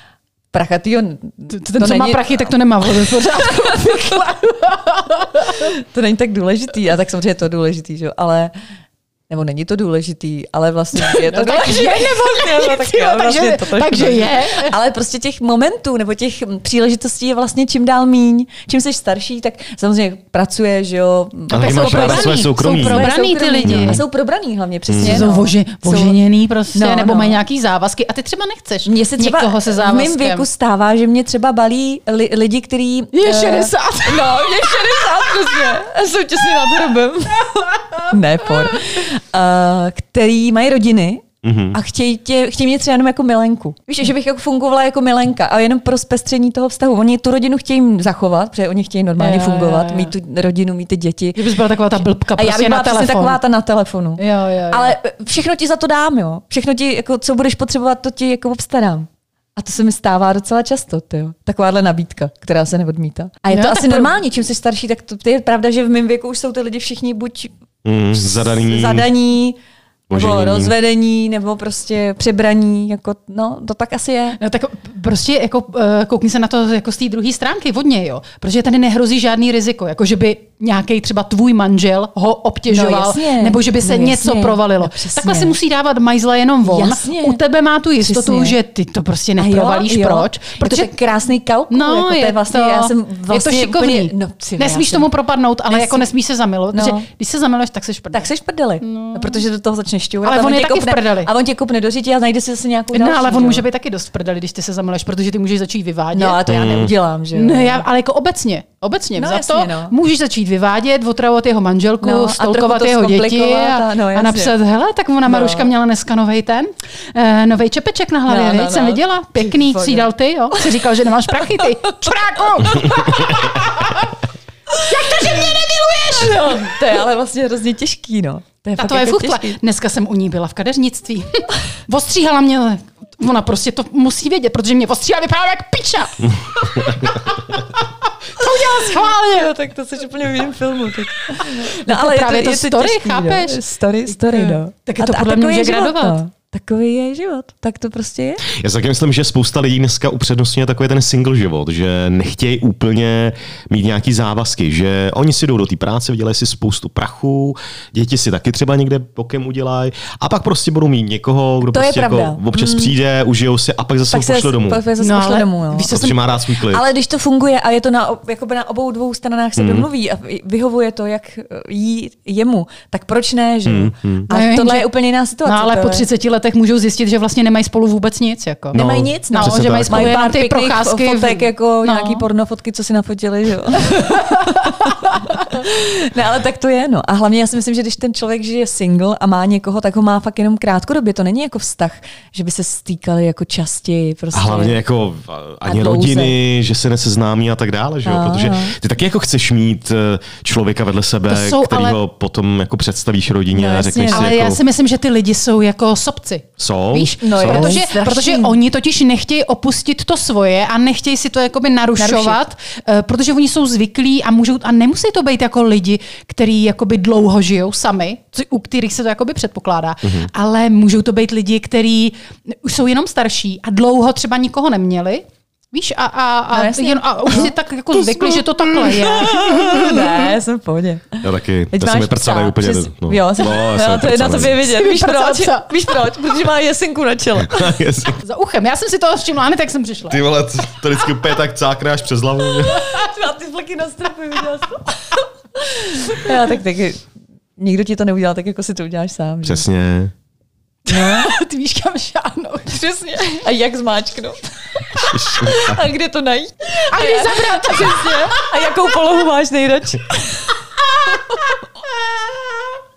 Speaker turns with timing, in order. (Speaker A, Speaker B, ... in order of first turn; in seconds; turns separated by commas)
Speaker A: 0.5-2.5, Speaker B: 1.5-5.7, Speaker A: 3.0-4.0, Speaker A: 5.6-8.5, Speaker A: 9.3-26.2, Speaker B: 10.9-14.8, Speaker C: 21.5-23.1, Speaker B: 21.5-24.0, Speaker C: 23.6-24.0, Speaker C: 24.9-25.2, Speaker B: 25.0-30.5, Speaker A: 26.7-27.4, Speaker A: 28.9-51.6, Speaker B: 33.1-34.6, Speaker B: 37.7-38.1, Speaker C: 41.4-41.8, Speaker B: 49.2-50.1, Speaker B: 51.4-53.4, Speaker A: 52.4-67.5, Speaker B: 54.2-55.0, Speaker B: 63.5-64.2, Speaker C: 67.8-69.1, Speaker A: 68.2-69.6, Speaker C: 70.1-70.7, Speaker A: 70.1-74.4, Speaker B: 74.4-90.9, Speaker A: 82.7-85.6, Speaker A: 86.7-87.4, Speaker A: 88.0-88.6, Speaker A: 89.4-95.1, Speaker B: 91.7-98.3, Speaker A: 95.7-96.1, Speaker A: 96.7-97.0, Speaker A: 98.1-103.7, Speaker B: 98.8-99.5, Speaker B: 100.2-101.3, Speaker B: 102.9-106.5, Speaker A: 106.1-107.8, Speaker C: 106.5-106.9, Speaker B: 107.3-124.2, Speaker A: 109.2-109.9, Speaker A: 112.0-114.5, Speaker A: 115.3-115.7, Speaker A: 118.3-120.8, Speaker A: 121.3-122.1, Speaker A: 122.7-123.4, Speaker A: 124.7-125.3, Speaker B: 124.8-126.9, Speaker A: 126.1-129.6, Speaker B: 128.8-139.5, Speaker A: 138.4-148.4, Speaker B: 141.4-146.2, Speaker C: 148.5-164.8, Speaker A: 161.7-162.9, Speaker A: 164.1-166.0, Speaker B: 165.0-166.2, Speaker C: 165.9-166.9, Speaker A: 166.7-176.1, Speaker C: 169.6-169.9, Speaker C: 173.7-174.3, Speaker B: 174.3-174.9, Speaker B: 175.4-182.3, Speaker C: 178.7-180.2, Speaker A: 178.7-194.8, Speaker B: 183.8-184.9, Speaker C: 194.3-204.6, Speaker A: 195.7-196.3, Speaker A: 198.1-198.8, Speaker B: 201.3-202.0, Speaker A: 203.5-204.4, Speaker B: 204.1-230.3, Speaker C: 206.6-207.8, Speaker A: 207.2-208.6, Speaker A: 212.0-212.4, Speaker C: 220.1-220.3, Speaker A: 226.5-227.6, Speaker A: 228.9-237.7, Speaker C: 231.2-234.6, Speaker B: 234.6-236.0, Speaker C: 237.4-238.2, Speaker B: 238.2-240.2, Speaker C: 240.1-242.9, Speaker A: 242.7-247.1, Speaker A: 247.6-249.7, Speaker C: 249.4-250.1, Speaker B: 250.9-252.9, Speaker A: 250.9-251.3, Speaker A: 252.7-260.6, Speaker C: 255.0-255.8, Speaker B: 256.9-258.6, Speaker B: 260.8-262.7